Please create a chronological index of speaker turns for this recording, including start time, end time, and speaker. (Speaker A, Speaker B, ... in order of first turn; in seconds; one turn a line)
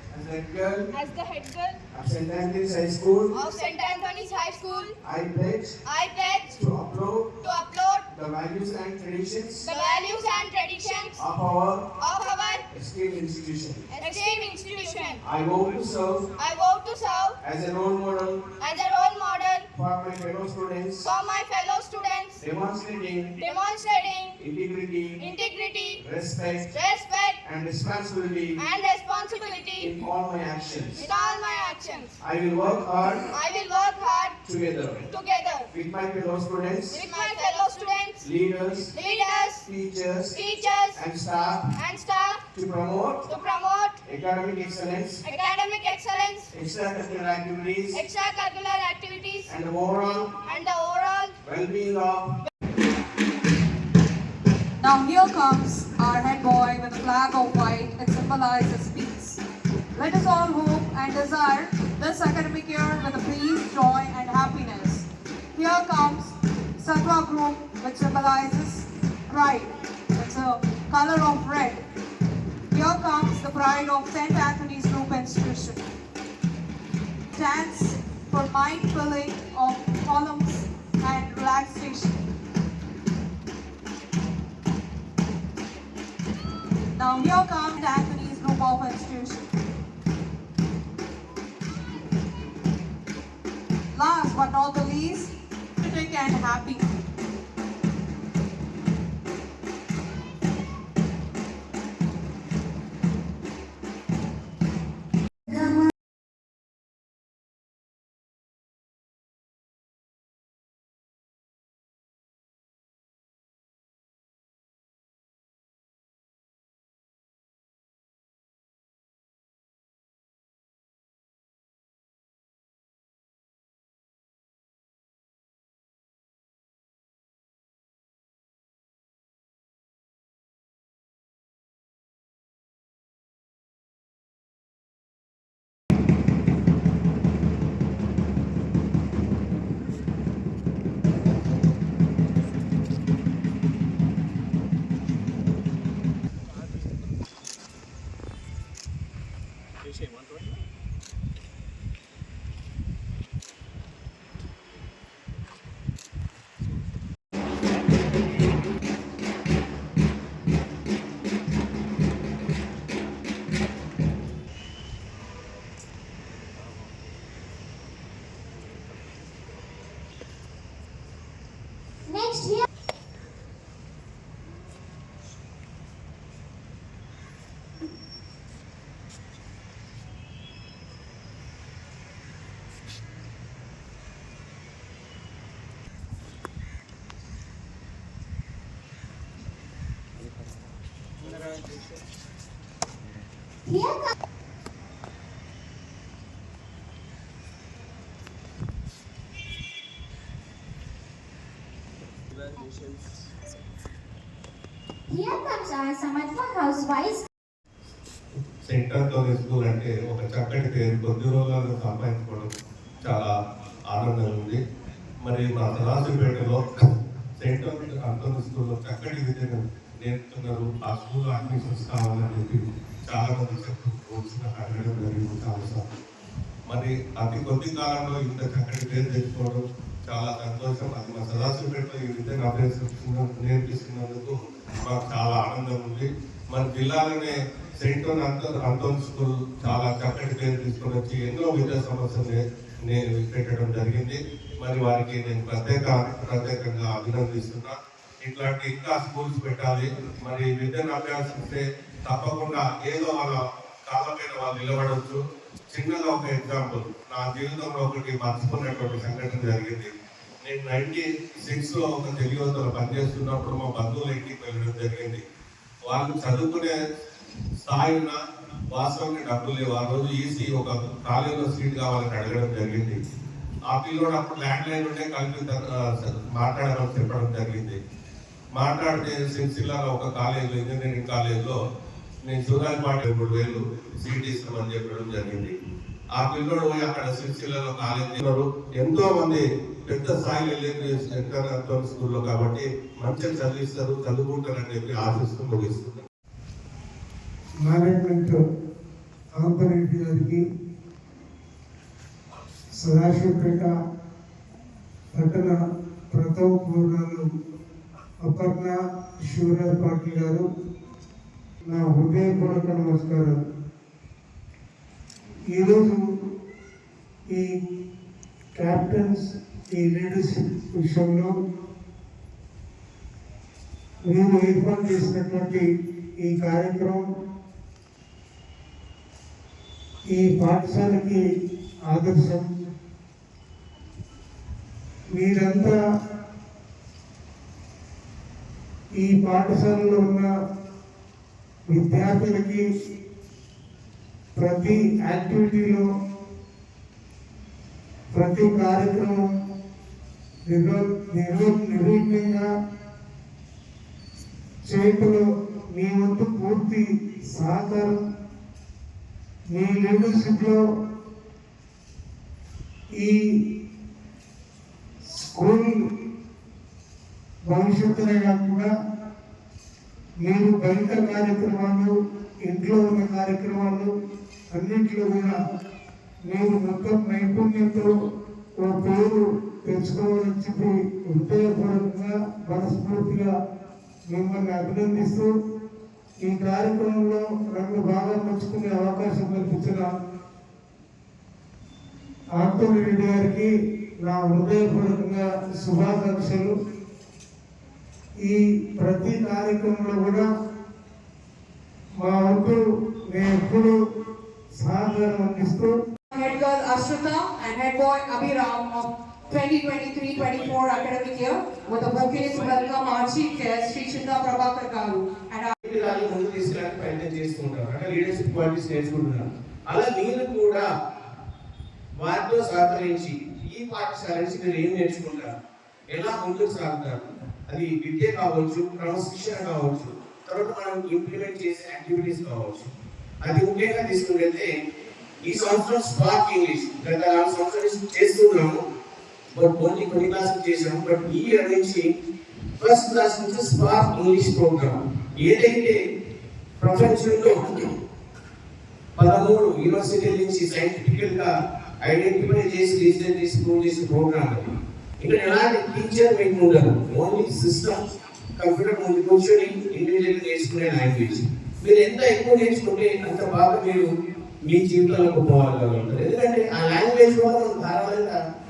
Speaker A: 0.1-0.9
Speaker B: 0.9-1.8
Speaker A: 1.9-3.3
Speaker B: 3.3-4.9
Speaker A: 5.0-5.8
Speaker B: 5.8-6.6
Speaker A: 6.5-7.3
Speaker B: 7.4-8.0
Speaker A: 8.1-9.7
Speaker B: 9.7-11.2
Speaker A: 11.2-11.8
Speaker B: 12.0-12.6
Speaker A: 12.7-13.9
Speaker B: 13.9-15.2
Speaker A: 15.2-16.3
Speaker B: 16.4-17.4
Speaker A: 17.4-18.5
Speaker B: 18.6-19.7
Speaker A: 19.7-21.1
Speaker B: 21.1-22.4
Speaker A: 22.4-23.4
Speaker B: 23.4-24.4
Speaker A: 24.4-25.2
Speaker B: 25.2-26.0
Speaker A: 26.0-26.7
Speaker B: 26.7-27.4
Speaker A: 27.4-28.6
Speaker B: 28.6-29.9
Speaker A: 29.8-31.1
Speaker B: 31.0-32.1
Speaker A: 32.2-33.3
Speaker B: 33.3-34.4
Speaker A: 34.4-35.1
Speaker B: 35.0-35.7
Speaker A: 35.7-37.0
Speaker B: 36.9-38.2
Speaker A: 38.2-38.9
Speaker B: 38.9-39.6
Speaker A: 39.6-40.4
Speaker B: 40.3-41.0
Speaker A: 40.9-41.6
Speaker B: 41.8-42.4
Speaker A: 42.5-43.3
Speaker B: 43.3-44.0
Speaker A: 44.0-45.2
Speaker B: 45.2-46.5
Speaker A: 46.5-48.0
Speaker B: 47.9-49.5
Speaker A: 49.5-50.3
Speaker B: 50.5-51.4
Speaker A: 51.4-52.3
Speaker C: 54.8-59.4
Speaker C: 60.0-71.8
Speaker C: 72.7-75.8
Speaker C: 77.3-82.2
Speaker C: 87.0-89.5
Speaker C: 93.9-96.9
Speaker D: 172.1-172.6
Speaker D: 193.7-194.1
Speaker A: 202.5-203.0
Speaker D: 205.1-207.2
Speaker E: 208.7-212.5
Speaker E: 213.0-213.3
Speaker E: 213.9-214.6
Speaker E: 215.2-216.6
Speaker E: 217.4-225.8
Speaker E: 226.7-255.2
Speaker E: 255.7-259.9
Speaker E: 260.4-265.2
Speaker E: 265.9-266.7
Speaker E: 267.6-268.2
Speaker E: 268.7-273.0
Speaker E: 273.7-277.8
Speaker E: 278.6-281.6
Speaker E: 282.2-285.6
Speaker E: 286.2-296.1
Speaker F: 297.6-298.4
Speaker F: 299.4-300.4
Speaker F: 302.8-303.7
Speaker F: 305.1-305.6
Speaker F: 306.1-307.2
Speaker F: 308.2-310.5
Speaker F: 311.7-313.4
Speaker F: 315.5-316.0
Speaker F: 317.3-317.6
Speaker F: 318.6-321.3
Speaker F: 324.1-325.7
Speaker F: 326.2-327.1
Speaker F: 330.1-331.2
Speaker F: 331.9-332.5
Speaker F: 335.2-335.8
Speaker F: 339.0-340.3
Speaker F: 341.7-342.7
Speaker F: 344.4-345.9
Speaker F: 348.1-349.3
Speaker F: 350.5-352.5
Speaker F: 354.7-358.0
Speaker F: 359.5-360.6
Speaker F: 365.2-365.8
Speaker F: 367.5-368.7
Speaker F: 370.2-371.9
Speaker F: 372.5-373.9
Speaker F: 374.5-375.4
Speaker F: 376.3-377.9
Speaker F: 378.6-383.3
Speaker F: 384.1-385.3
Speaker F: 386.2-389.9
Speaker F: 392.4-393.5
Speaker F: 394.0-396.5
Speaker F: 398.2-400.3
Speaker F: 402.0-403.8
Speaker F: 404.6-405.7
Speaker C: 406.1-415.5
Speaker A: 415.6-420.7
Speaker A: 422.0-425.3
Speaker A: 425.9-432.7
Speaker A: 433.2-434.5
Speaker A: 435.2-438.6
Speaker A: 439.4-441.9
Speaker A: 442.6-445.8
Speaker A: 446.6-447.7
Speaker A: 449.0-451.3
Speaker A: 451.9-454.5
Speaker A: 455.0-457.8
Speaker A: 458.4-463.9
Speaker A: 464.4-468.2